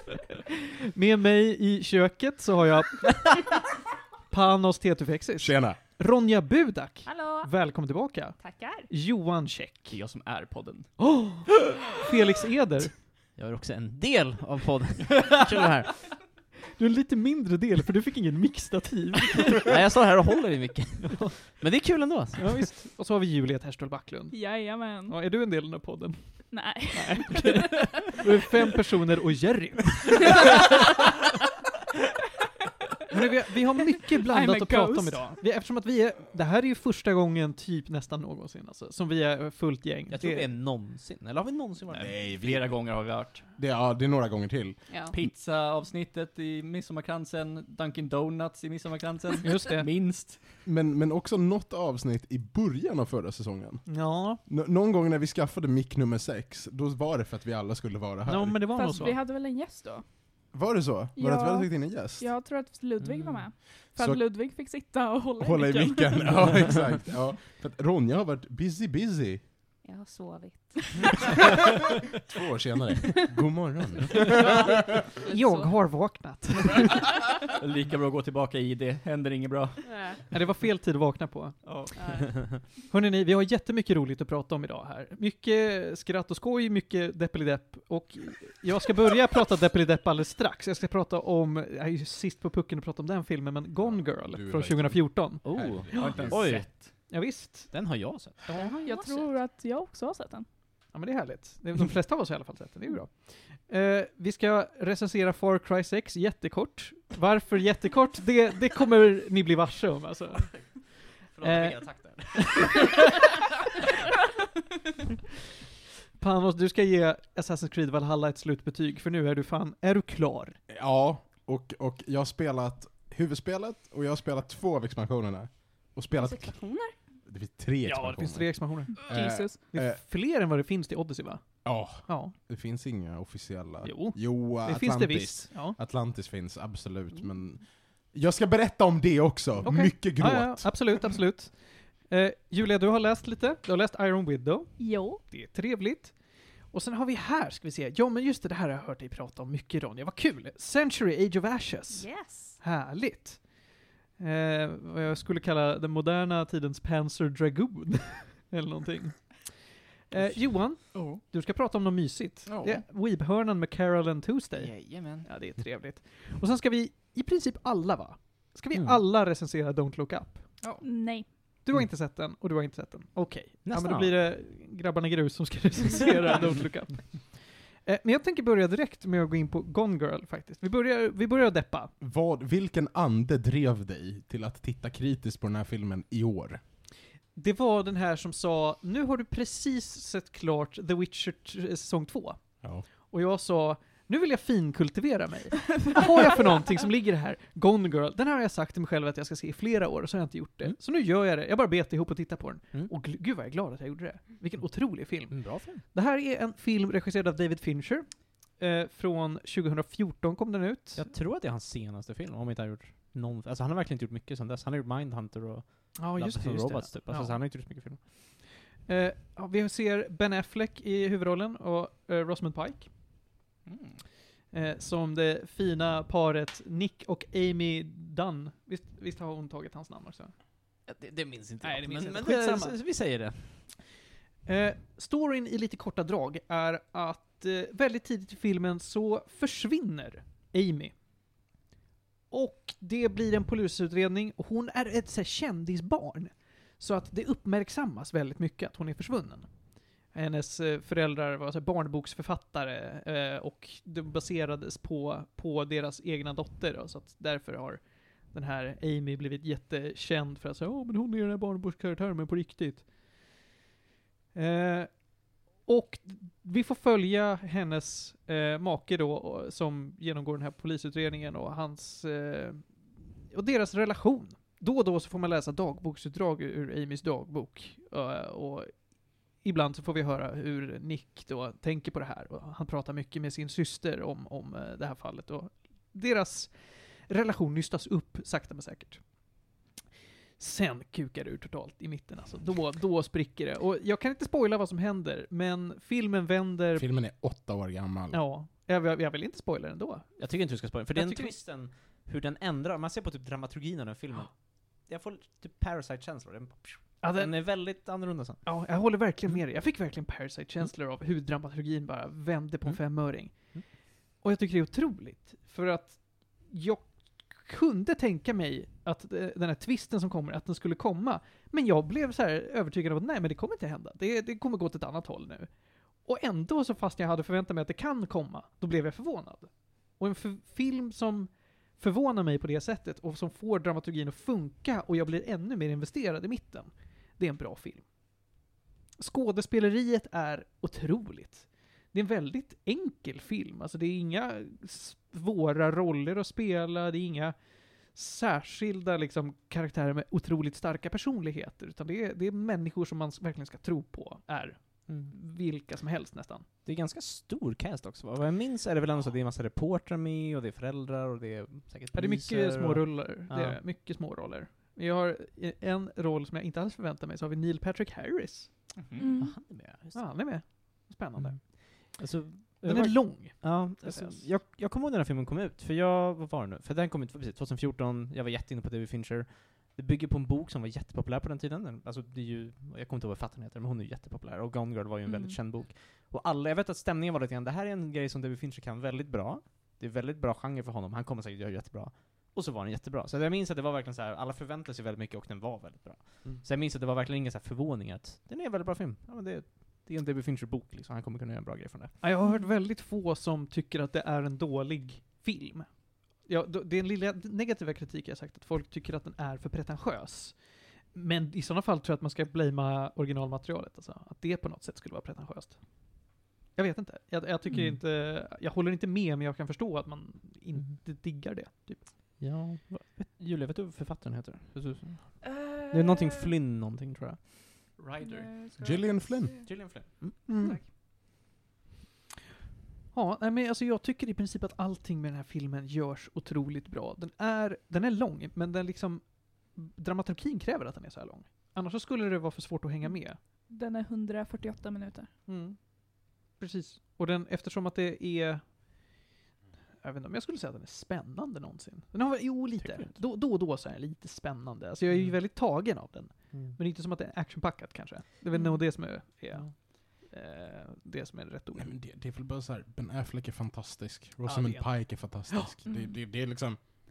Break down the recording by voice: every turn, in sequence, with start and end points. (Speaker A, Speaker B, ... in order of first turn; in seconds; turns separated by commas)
Speaker A: 0.8-3.5, Speaker A: 4.3-9.9, Speaker B: 5.4-5.8, Speaker C: 7.0-7.5, Speaker C: 8.4-8.9, Speaker D: 9.9-10.9, Speaker A: 11.0-12.9, Speaker E: 13.3-16.2, Speaker A: 16.8-19.7, Speaker E: 19.6-22.7, Speaker A: 21.0-21.4, Speaker A: 22.4-30.5, Speaker F: 24.3-25.2, Speaker F: 26.5-27.9, Speaker A: 33.1-40.5, Speaker F: 34.2-35.3, Speaker E: 40.1-42.2, Speaker B: 42.0-43.0, Speaker D: 42.0-43.5, Speaker B: 43.6-44.8, Speaker C: 44.9-45.2, Speaker D: 45.1-50.6, Speaker A: 49.4-49.9, Speaker B: 50.6-58.7, Speaker A: 53.9-54.4, Speaker A: 58.3-59.2, Speaker F: 58.8-60.0, Speaker B: 60.5-62.3, Speaker F: 61.2-66.4, Speaker E: 63.0-63.5, Speaker B: 64.0-64.2, Speaker B: 65.4-69.4, Speaker C: 69.8-71.0, Speaker B: 72.3-74.8, Speaker C: 74.3-75.8, Speaker A: 75.3-77.0, Speaker D: 77.6-79.8, Speaker C: 79.8-80.2, Speaker A: 80.3-81.6, Speaker D: 81.6-82.4, Speaker C: 82.0-82.3, Speaker A: 82.9-96.1, Speaker B: 93.8-96.6, Speaker E: 95.4-96.7, Speaker D: 95.9-97.0, Speaker A: 96.7-97.7, Speaker E: 97.7-98.7, Speaker C: 98.5-99.3, Speaker F: 98.8-100.5, Speaker A: 100.9-110.8, Speaker E: 110.4-110.7, Speaker E: 111.3-113.1, Speaker A: 111.4-113.2, Speaker A: 116.2-120.6, Speaker B: 120.7-126.6, Speaker C: 126.2-127.0, Speaker B: 127.3-130.0, Speaker A: 127.8-132.3, Speaker F: 129.0-129.6, Speaker B: 131.7-140.8, Speaker A: 133.8-135.8, Speaker A: 139.6-146.2, Speaker F: 144.8-145.2, Speaker A: 146.7-152.1, Speaker C: 152.0-152.5, Speaker F: 152.0-152.5, Speaker A: 152.6-153.6, Speaker A: 154.2-170.5, Speaker D: 160.8-161.2, Speaker D: 162.5-162.8, Speaker D: 164.6-165.3, Speaker F: 170.8-171.3, Speaker A: 171.6-181.9, Speaker E: 173.7-174.1, Speaker B: 182.0-186.6, Speaker A: 187.4-192.4, Speaker A: 193.0-211.0, Speaker E: 205.3-205.8, Speaker E: 211.0-218.0, Speaker A: 216.0-217.4, Speaker A: 218.9-222.9, Speaker D: 223.7-224.0, Speaker A: 224.5-230.3, Speaker E: 230.9-233.7, Speaker A: 231.6-232.8, Speaker A: 234.5-241.0, Speaker A: 242.3-249.5, Speaker A: 250.1-262.9, Speaker A: 264.3-272.7, Speaker A: 273.3-278.8, Speaker A: 279.4-289.0, Speaker A: 290.4-296.9, Speaker B: 296.8-298.2, Speaker A: 298.1-300.2, Speaker E: 300.2-308.4, Speaker A: 300.9-301.3, Speaker A: 307.0-307.4, Speaker A: 308.4-325.5, Speaker E: 312.7-313.7, Speaker A: 326.0-337.9, Speaker A: 339.0-356.5, Speaker E: 354.9-355.1, Speaker E: 356.6-363.6, Speaker A: 361.9-368.5, Speaker D: 368.9-369.1, Speaker F: 369.0-369.3, Speaker E: 369.2-370.1, Speaker A: 369.9-372.0, Speaker E: 371.2-401.9, Speaker A: 372.6-374.2, Speaker F: 385.1-385.4, Speaker A: 402.0-410.4, Speaker A: 410.9-421.9, Speaker E: 417.5-417.8, Speaker E: 422.2-427.8, Speaker F: 425.2-426.3, Speaker D: 427.8-428.3, Speaker F: 428.0-429.4, Speaker B: 428.6-429.8, Speaker E: 429.5-430.3, Speaker A: 430.3-430.6, Speaker F: 430.4-430.6, Speaker A: 432.9-443.2, Speaker F: 443.5-445.1, Speaker A: 445.3-448.6, Speaker A: 449.8-461.8, Speaker E: 452.6-453.0, Speaker F: 458.3-458.7, Speaker B: 461.6-466.6, Speaker A: 464.2-465.5, Speaker F: 465.7-465.9